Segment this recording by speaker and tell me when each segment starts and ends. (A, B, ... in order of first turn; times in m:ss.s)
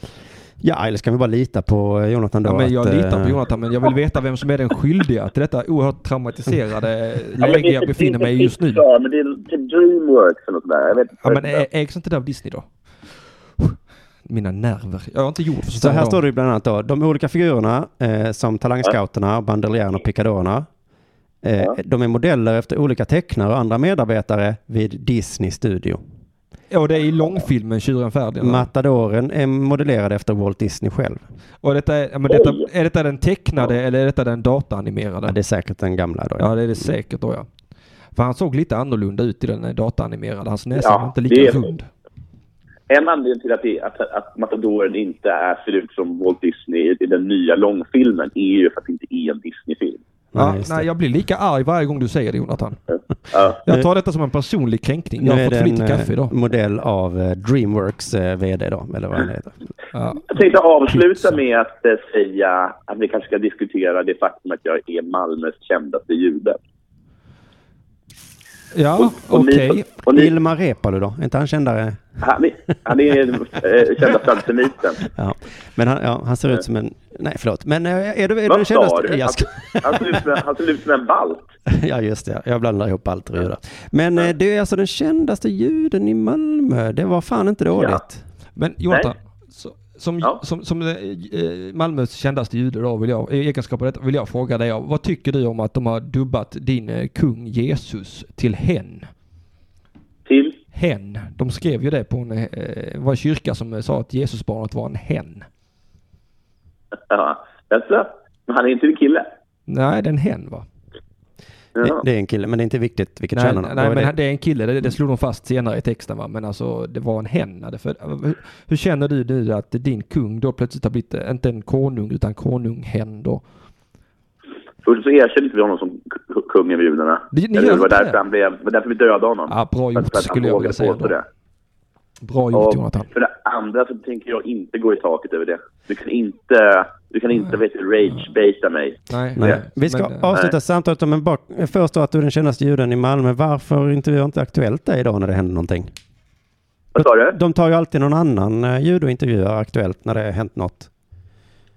0:00.6-0:03.4 A
0:02.4-0:08.8 B
0:07.4-0:11.6 C
0:11.2-0:12.7 B
0:13.6-0:16.2 B
0:15.7-0:20.7 A
0:21.4-0:26.0 A
0:26.7-0:28.7 B
0:28.4-0:31.2 A
0:31.6-0:35.4 B
0:32.3-0:32.7 C
0:35.3-0:36.9 A
0:36.4-0:37.5 B
0:38.1-0:41.9 B
0:40.8-0:41.7 C
0:42.9-0:50.0 C
0:50.3-0:50.9 A
0:50.4-0:52.8 B
0:53.3-0:53.6 C
0:53.6-0:56.3 B
0:55.2-0:59.6 A
0:59.9-1:00.4 B
1:00.3-1:06.6 C
1:00.9-1:01.4 B
1:08.7-1:09.9 B
1:09.0-1:10.3 C
1:10.1-1:12.2 A
1:12.2-1:15.0 C
1:15.0-1:20.4 A
1:18.5-1:21.5 C
1:21.7-1:28.2 A
1:28.6-1:39.1 B
1:40.3-1:40.6 C
1:40.7-1:45.5 B
1:47.1-1:49.3 C
1:49.7-1:50.7 B
1:51.8-1:52.0 C
1:51.8-1:54.1 A
1:53.3-2:03.4 B
2:04.8-2:11.2 C
2:07.3-2:08.2 B
2:09.5-2:11.2 B
2:12.2-2:13.1 B
2:12.5-2:19.6 C
2:19.1-2:20.3 B
2:19.4-2:25.9 A
2:27.0-2:27.4 C
2:27.0-2:30.9 A